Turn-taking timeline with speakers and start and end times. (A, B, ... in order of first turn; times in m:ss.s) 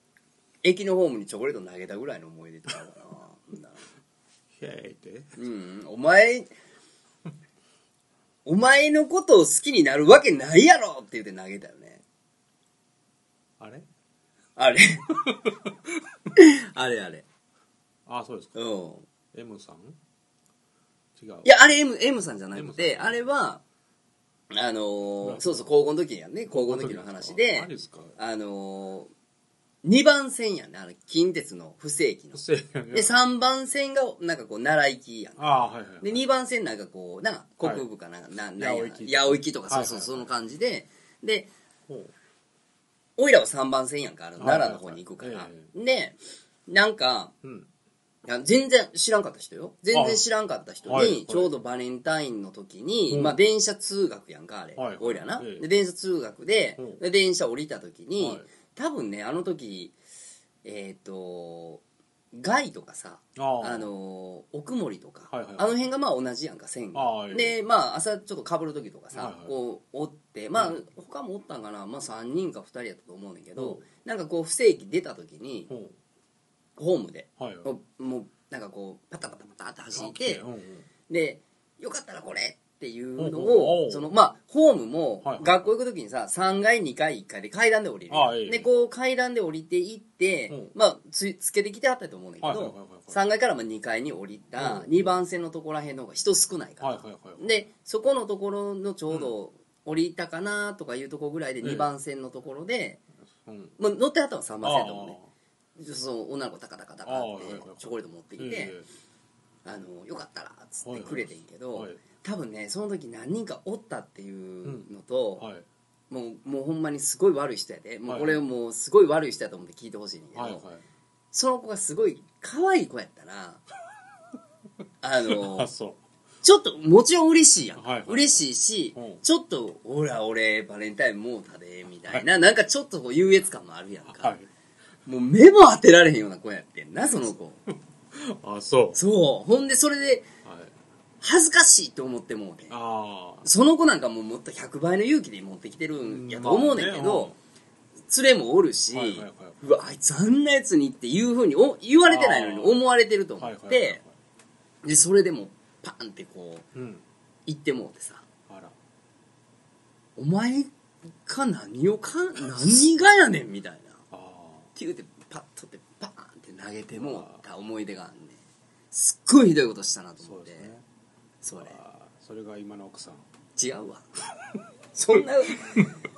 0:00.6-0:03.8 A
0:04.5-0:05.4 B
0:05.4-0:06.5 A
0:08.5-0:12.0 A
0:13.6-0:13.9 B
0:14.6-0:15.3 A
0:15.3-0:15.5 B
0:16.3-0:17.2 A
0:18.1-0:18.6 B
0:18.6-0:19.1 A
0:19.3-0:20.0 B
0:21.2-0:21.5 B
0:21.4-0:23.6 A
0:22.5-0:23.3 B
0:24.5-0:29.1 A
0:25.2-0:25.7 B
0:26.5-0:28.2 B
0:29.8-0:35.5 A
0:32.3-0:33.2 B
0:35.4-0:36.2 B
0:36.0-0:41.5 A
0:38.6-0:40.3 B
0:41.9-0:42.1 B
0:43.2-0:47.3 A
0:44.4-0:45.7 B
0:47.4-0:47.7 B
0:48.2-1:00.0 A
0:49.9-0:50.3 B
0:50.8-0:51.5 B
0:53.1-0:53.4 B
0:54.8-0:55.7 B
0:58.2-0:58.5 B
1:00.6-1:01.8 A
1:02.3-1:15.7 A
1:03.4-1:03.9 B
1:05.3-1:05.7 B
1:06.9-1:07.6 B
1:09.1-1:09.5 B
1:13.6-1:13.8 B
1:15.7-1:16.0 B
1:16.8-1:20.4 A
1:17.4-1:17.7 B
1:19.9-1:20.9 B
1:21.1-1:43.0 A
1:23.2-1:24.1 B
1:25.2-1:25.7 B
1:28.1-1:28.7 B
1:32.4-1:33.2 B
1:34.6-1:35.2 B
1:36.8-1:37.5 B
1:41.6-1:41.9 B
1:43.4-1:43.8 B
1:43.8-1:45.2 A
1:44.6-1:45.3 B
1:45.8-1:48.8 A
1:47.0-1:48.9 B
1:49.6-1:55.5 A
1:50.8-1:52.0 B
1:55.4-1:55.6 B
1:56.1-2:00.6 A
1:58.1-1:58.4 B
2:00.4-2:00.8 B
2:01.3-2:03.6 A
2:05.0-2:05.7 A
2:05.2-2:06.0 B
2:06.4-2:14.4 A
2:07.8-2:09.2 B
2:14.1-2:14.5 B
2:15.1-2:17.6 A
2:17.0-2:17.3 B
2:18.1-2:19.0 B
2:19.0-2:20.3 A
2:20.4-2:20.8 B
2:21.2-2:22.8 A
2:22.7-2:23.5 B
2:23.4-2:27.3 A
2:26.0-2:27.4 B
2:28.1-2:34.0 A
2:28.9-2:29.6 B
2:32.1-2:32.8 B
2:33.4-2:34.1 B
2:34.8-2:36.7 A
2:36.7-2:37.0 B
2:37.5-2:38.2 A
2:38.5-2:38.8 B
2:40.2-2:44.0 A
2:44.1-2:44.7 B
2:44.8-2:48.4 A
2:46.9-2:47.4 B
2:48.9-2:50.7 A
2:50.2-2:50.8 B
2:51.4-2:51.8 A
2:51.6-2:53.3 B
2:53.6-2:54.1 A
2:55.0-2:55.9 A
2:55.1-2:56.0 B